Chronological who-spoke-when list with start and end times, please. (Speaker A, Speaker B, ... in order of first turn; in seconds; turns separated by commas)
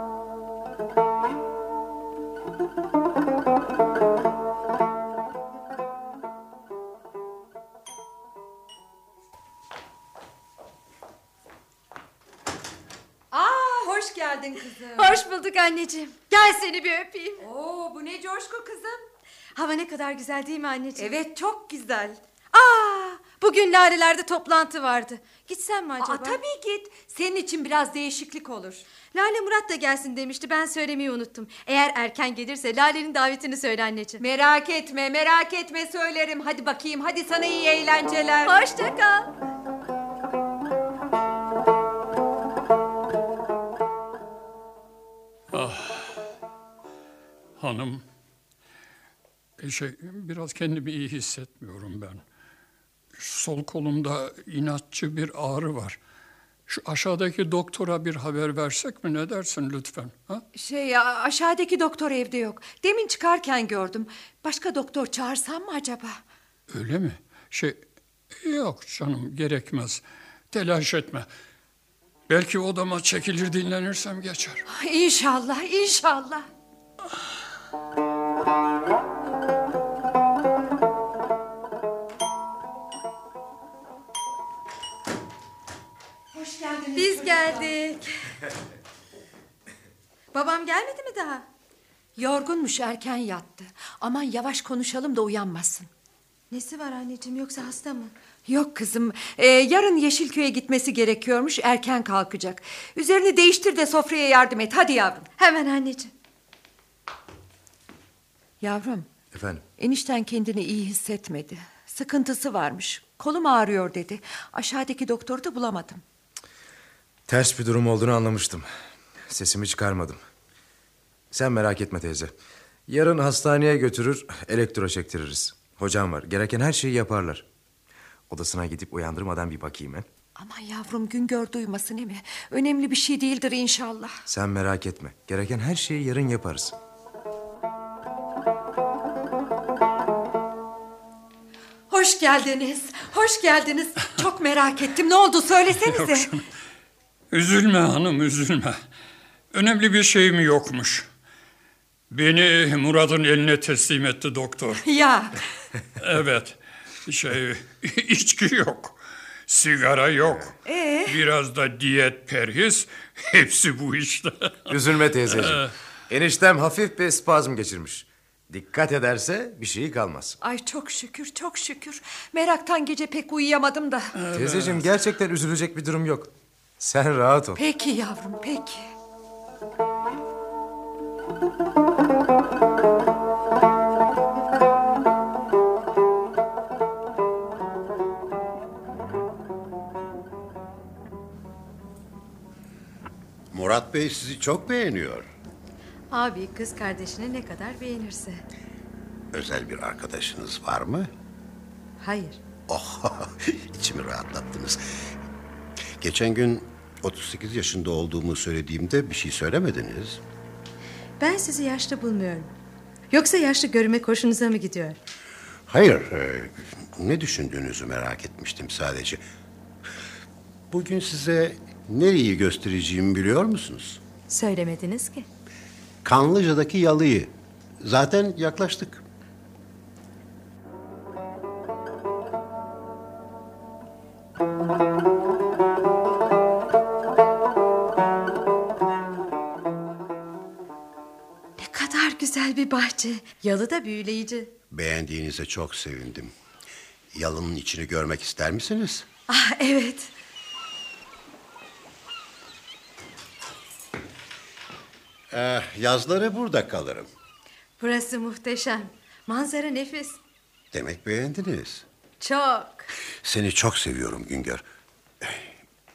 Speaker A: 13.3-15.2, Speaker B: 14.9-17.4, Speaker A: 17.4-19.0, Speaker B: 19.6-21.2, Speaker A: 20.9-22.2, Speaker B: 22.5-26.4, Speaker A: 26.0-28.8, Speaker B: 29.1-34.2, Speaker A: 34.2-38.6, Speaker B: 38.4-39.3, Speaker C: 45.5-46.2, Speaker C: 47.6-48.0, Speaker C: 49.6-52.2, Speaker C: 53.1-56.0, Speaker C: 56.7-60.4, Speaker A: 60.5-66.2, Speaker C: 66.7-67.8, Speaker C: 68.4-71.3, Speaker C: 72.3-74.6, Speaker A: 74.7-76.5, Speaker A: 86.3-87.7, Speaker B: 86.9-88.1, Speaker B: 90.3-91.5, Speaker A: 92.2-95.9, Speaker B: 96.5-98.1, Speaker A: 98.5-105.3, Speaker B: 105.4-106.1, Speaker A: 108.6-109.1, Speaker D: 109.3-109.6, Speaker A: 109.8-116.0, Speaker D: 117.3-118.7, Speaker D: 119.3-120.2, Speaker D: 121.3-122.3, Speaker D: 122.9-127.4, Speaker D: 128.3-130.1, Speaker A: 130.4-134.2, Speaker D: 134.3-136.7, Speaker B: 141.9-143.9, Speaker A: 144.1-146.2, Speaker C: 145.8-146.4, Speaker C: 147.3-148.8, Speaker C: 149.5-151.1, Speaker C: 152.1-154.8, Speaker A: 154.8-155.4, Speaker C: 156.0-160.5, Speaker A: 160.6-161.2, Speaker C: 161.1-164.7, Speaker D: 164.7-170.4, Speaker C: 165.2-165.7, Speaker A: 170.4-174.1, Speaker C: 174.2-174.8, Speaker D: 174.3-177.6, Speaker A: 177.5-178.9, Speaker E: 193.5-195.3, Speaker B: 196.1-198.4, Speaker E: 199.3-201.1, Speaker B: 202.0-202.4, Speaker E: 202.7-205.0, Speaker E: 206.0-210.2, Speaker B: 211.2-212.5, Speaker B: 213.1-215.0, Speaker E: 215.7-219.2, Speaker E: 220.7-224.0, Speaker B: 224.3-225.3, Speaker E: 226.0-229.0, Speaker B: 241.6-244.5, Speaker E: 244.7-246.3, Speaker E: 247.1-249.1, Speaker B: 249.3-250.1, Speaker E: 255.3-257.1, Speaker B: 257.8-260.2, Speaker E: 260.7-261.9, Speaker B: 262.2-262.9, Speaker E: 263.2-264.6, Speaker E: 265.2-265.6